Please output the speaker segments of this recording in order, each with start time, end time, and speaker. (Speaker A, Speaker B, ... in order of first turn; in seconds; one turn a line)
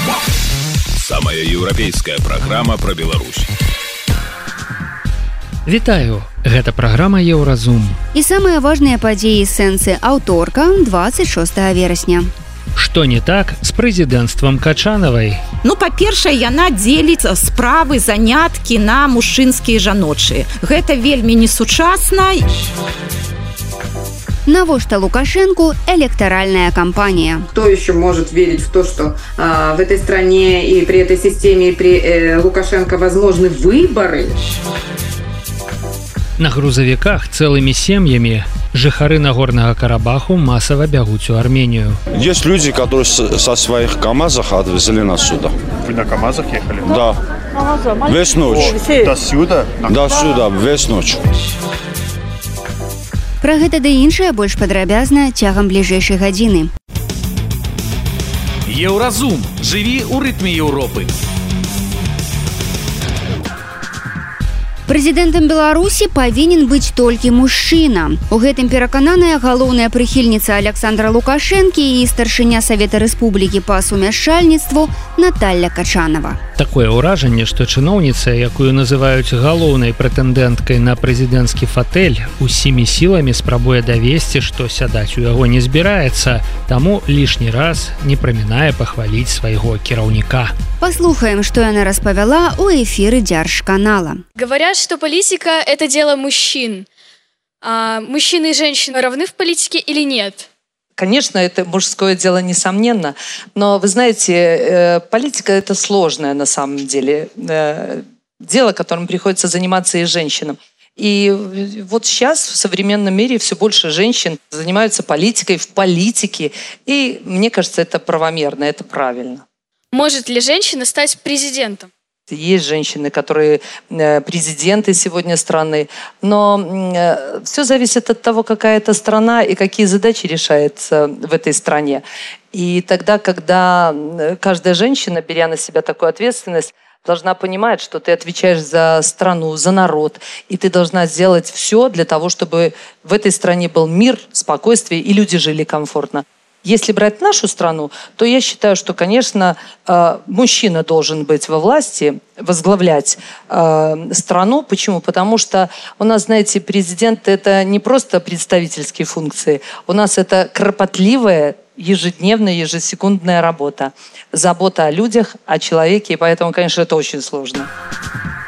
Speaker A: 1.0-3.5
Speaker B: 5.7-8.0
Speaker C: 8.1-12.3
Speaker B: 12.8-15.4
Speaker D: 15.6-22.5
Speaker C: 24.5-27.5
Speaker E: 27.5-34.4
Speaker B: 36.4-42.0
Speaker F: 42.1-45.5
Speaker G: 45.8-47.0
Speaker F: 46.9-47.2
Speaker F: 48.1-48.8
Speaker G: 48.5-50.2
Speaker F: 49.9-51.2
Speaker C: 53.4-56.7
Speaker H: 58.7-61.1
Speaker C: 64.9-76.4
Speaker B: 76.6-90.5
Speaker C: 90.8-94.2
Speaker I: 94.4-96.9
Speaker I: 97.6-100.5
Speaker J: 101.0-119.5
Speaker I: 119.9-121.9
Speaker J: 122.3-167.7